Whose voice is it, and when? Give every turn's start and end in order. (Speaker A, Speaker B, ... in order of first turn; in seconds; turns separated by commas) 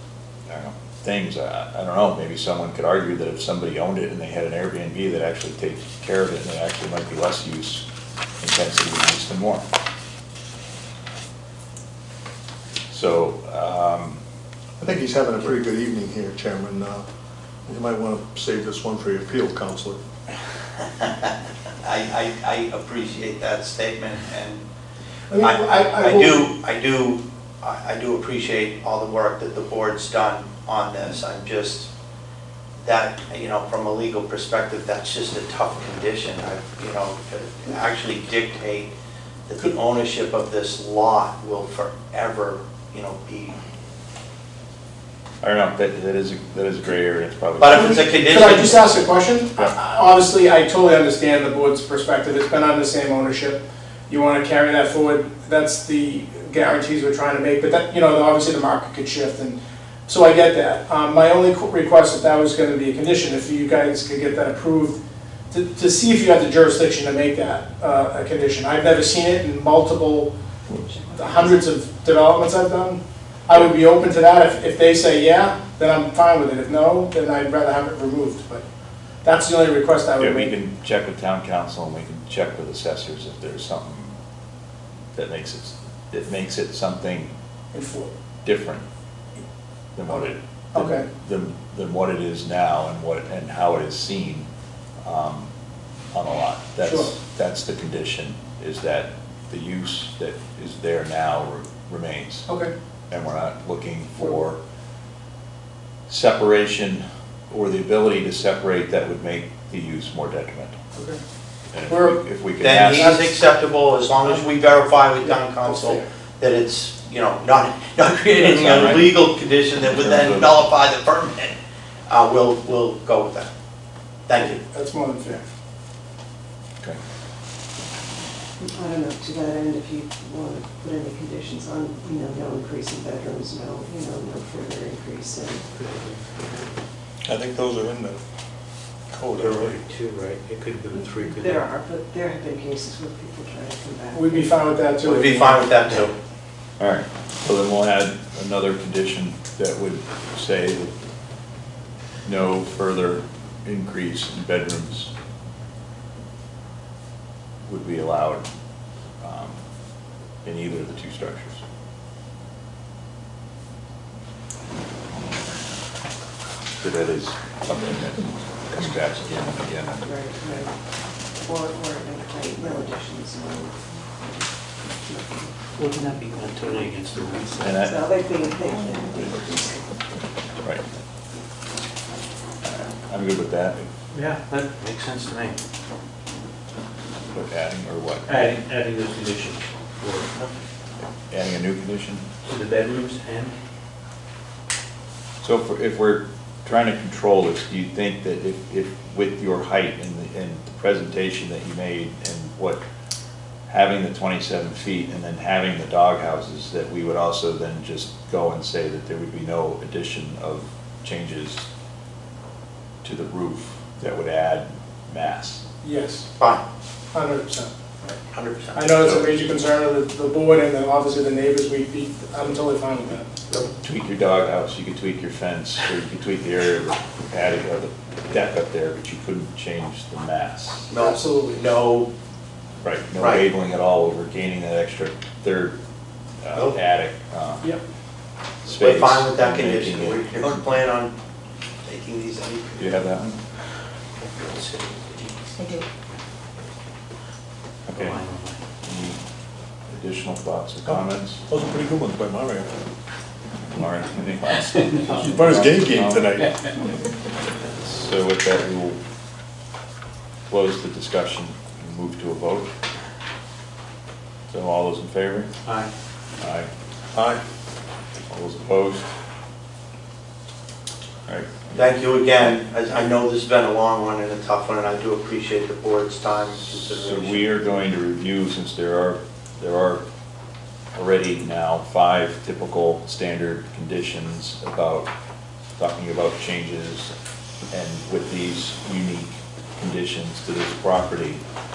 Speaker A: 0.5-7.8, Speaker A: 8.4-9.6, Speaker A: 12.9-14.2, Speaker B: 14.8-17.0, Speaker B: 17.7-20.0, Speaker C: 21.0-21.3, Speaker C: 21.8-24.6, Speaker D: 25.3-26.4, Speaker C: 25.4-31.9, Speaker C: 32.8-38.9, Speaker C: 39.5-43.5, Speaker A: 45.4-48.1, Speaker C: 47.6-49.0, Speaker D: 47.7-65.0, Speaker D: 65.5-70.3, Speaker E: 70.7-71.6, Speaker D: 71.1-78.6, Speaker D: 79.2-80.5, Speaker A: 80.2-84.1, Speaker A: 85.1-87.3, Speaker D: 87.7-88.1, Speaker A: 88.4-88.8, Speaker A: 90.0-94.5, Speaker D: 90.7-91.1, Speaker A: 95.0-95.5, Speaker A: 96.1-102.5, Speaker D: 96.8-97.1, Speaker A: 103.1-104.6, Speaker A: 106.1-110.8, Speaker A: 111.7-113.1, Speaker D: 111.9-112.2, Speaker C: 112.6-123.5, Speaker D: 112.8-113.4, Speaker D: 115.2-116.0, Speaker A: 118.3-119.2, Speaker A: 119.9-120.6, Speaker C: 124.3-124.6, Speaker D: 124.3-125.4, Speaker E: 128.6-135.7, Speaker F: 135.7-136.7, Speaker B: 137.2-138.2, Speaker B: 139.1-139.8, Speaker F: 139.3-141.7, Speaker E: 141.0-144.6, Speaker D: 144.1-145.7, Speaker C: 145.0-146.1, Speaker A: 146.8-150.9, Speaker A: 152.2-155.1, Speaker A: 157.6-158.4, Speaker A: 159.2-159.6, Speaker A: 160.4-161.6, Speaker A: 166.8-170.6, Speaker E: 170.0-170.7, Speaker E: 171.4-175.5, Speaker F: 175.8-177.8, Speaker A: 177.6-178.0, Speaker E: 177.8-179.8, Speaker A: 182.6-183.9, Speaker F: 184.1-185.6, Speaker A: 187.3-188.4, Speaker F: 188.2-190.3, Speaker A: 191.3-192.3, Speaker F: 192.4-193.5, Speaker A: 195.4-202.8, Speaker A: 203.7-211.6, Speaker A: 213.0-215.6, Speaker D: 215.8-216.2, Speaker D: 217.1-218.2, Speaker C: 218.3-218.8, Speaker D: 218.7-223.3, Speaker A: 218.8-219.3, Speaker A: 223.8-230.9, Speaker C: 230.9-232.1, Speaker D: 230.9-231.7, Speaker A: 232.8-235.7, Speaker C: 233.2-233.4, Speaker A: 236.4-237.7, Speaker A: 238.7-240.8, Speaker C: 238.7-241.1, Speaker C: 241.8-242.9, Speaker A: 242.8-243.4, Speaker F: 244.2-246.2, Speaker A: 247.9-248.2, Speaker F: 247.9-248.6, Speaker A: 248.8-249.2, Speaker A: 249.9-251.4, Speaker B: 250.8-252.7, Speaker A: 253.7-256.4, Speaker F: 254.9-255.2, Speaker B: 255.1-256.7, Speaker A: 257.8-259.0, Speaker A: 260.5-262.7, Speaker A: 264.5-265.5, Speaker F: 265.6-265.9, Speaker A: 266.4-266.7, Speaker B: 267.1-267.4, Speaker A: 268.3-269.1, Speaker A: 271.3-271.9, Speaker C: 271.7-277.4, Speaker A: 276.6-280.0, Speaker A: 280.9-285.1, Speaker A: 285.8-287.1, Speaker A: 287.7-291.4